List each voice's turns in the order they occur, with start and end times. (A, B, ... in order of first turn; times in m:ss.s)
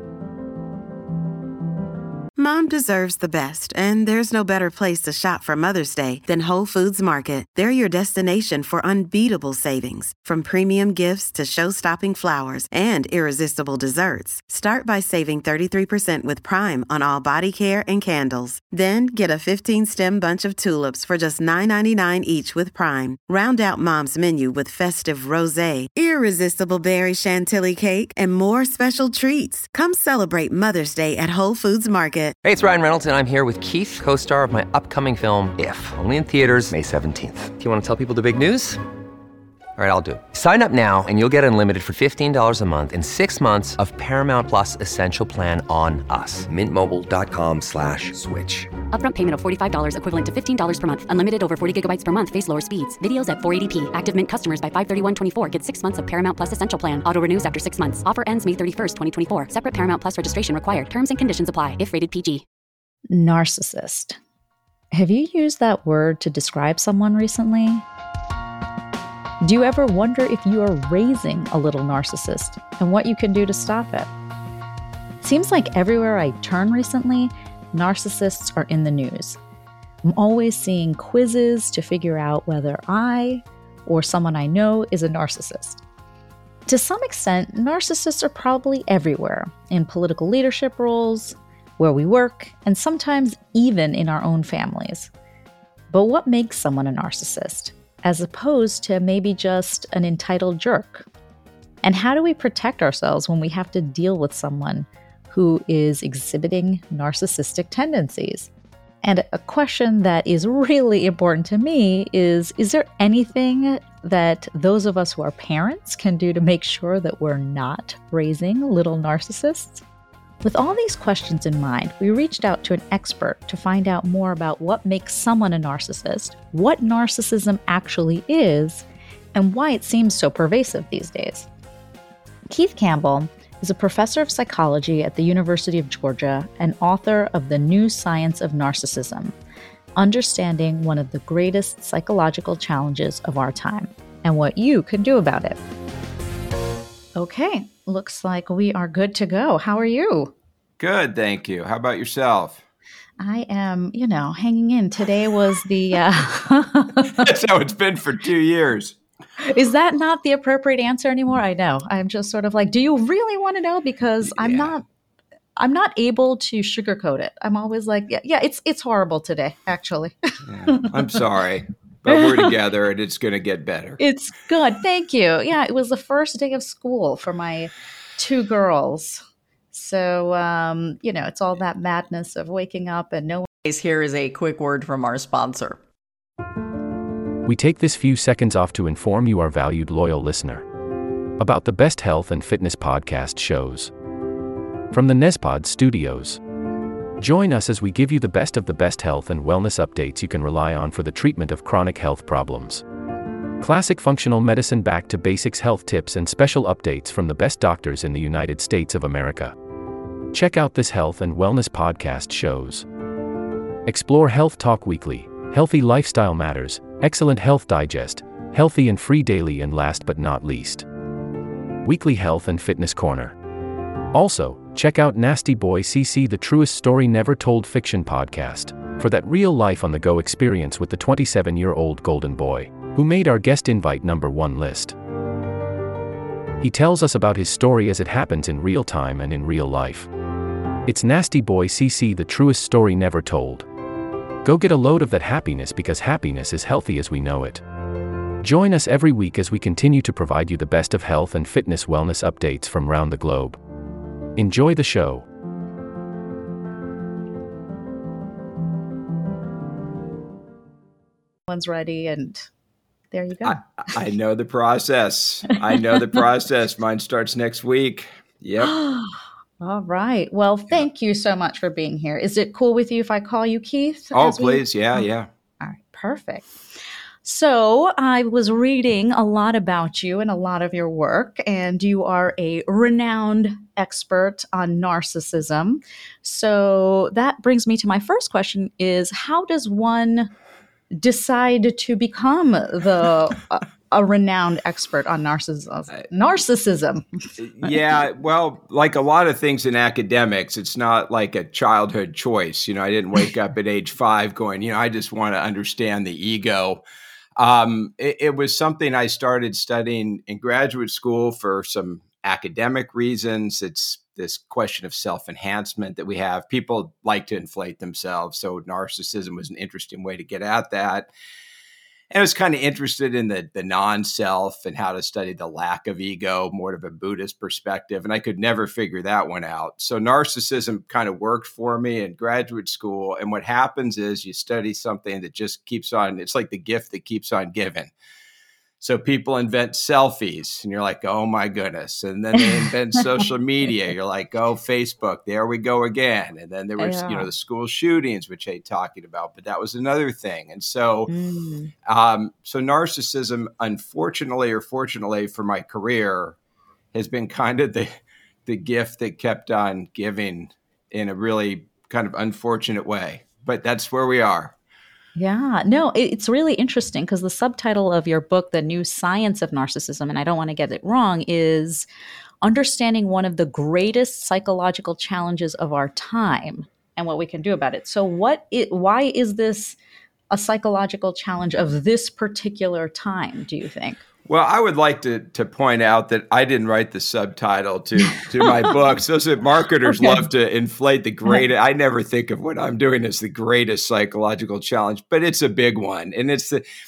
0:02.4-0:32.4 A
0:32.4-0:38.8 B
0:39.8-0:48.7 B
0:48.9-1:02.4 C
1:03.1-1:04.2 D
1:04.9-1:07.8 D
1:09.4-1:14.1 D
1:15.2-1:19.4 D
1:20.0-1:25.8 D
1:26.6-1:35.1 D
1:35.9-1:41.1 D
1:41.8-1:48.5 D
1:49.0-1:59.8 D
2:00.4-2:11.5 D
2:12.5-2:19.3 D
2:20.0-2:25.6 D
2:27.2-2:30.3 D
2:30.8-2:32.6 E
2:33.2-2:37.3 D
2:37.1-2:39.0 E
2:39.4-2:44.8 D
2:44.2-2:44.8 E
2:45.6-2:50.1 D
2:50.4-2:54.0 E
2:52.1-2:52.4 D
2:54.0-3:03.5 D
3:03.6-3:05.8 F
3:07.4-3:10.6 G
3:11.4-3:13.9 G
3:14.9-3:16.4 G
3:17.2-3:22.8 G
3:23.6-3:29.5 G
3:30.3-3:32.8 G
3:33.8-3:40.8 G
3:41.8-3:43.3 G
3:44.1-3:54.9 G
3:56.6-4:00.1 G
4:00.8-4:03.6 G
4:04.4-4:07.6 G
4:08.4-4:13.6 G
4:14.4-4:15.2 G
4:21.5-4:22.5 D
4:23.1-4:23.6 D
4:23.4-4:28.7 E
4:28.6-4:35.0 D
4:34.1-4:35.3 E
4:35.6-4:36.6 D
4:37.2-4:50.3 D
4:50.9-4:57.0 D
4:57.4-5:06.8 E
5:07.4-5:21.1 E
5:22.1-5:37.9 E
5:38.8-5:51.1 E
5:46.8-5:47.3 D
5:51.1-5:51.7 D
5:51.8-5:56.4 E
5:56.9-5:57.9 E
5:58.4-6:04.5 E
6:05.2-6:11.9 D
6:12.4-6:19.8 D
6:20.3-6:24.0 D
6:24.2-6:36.6 E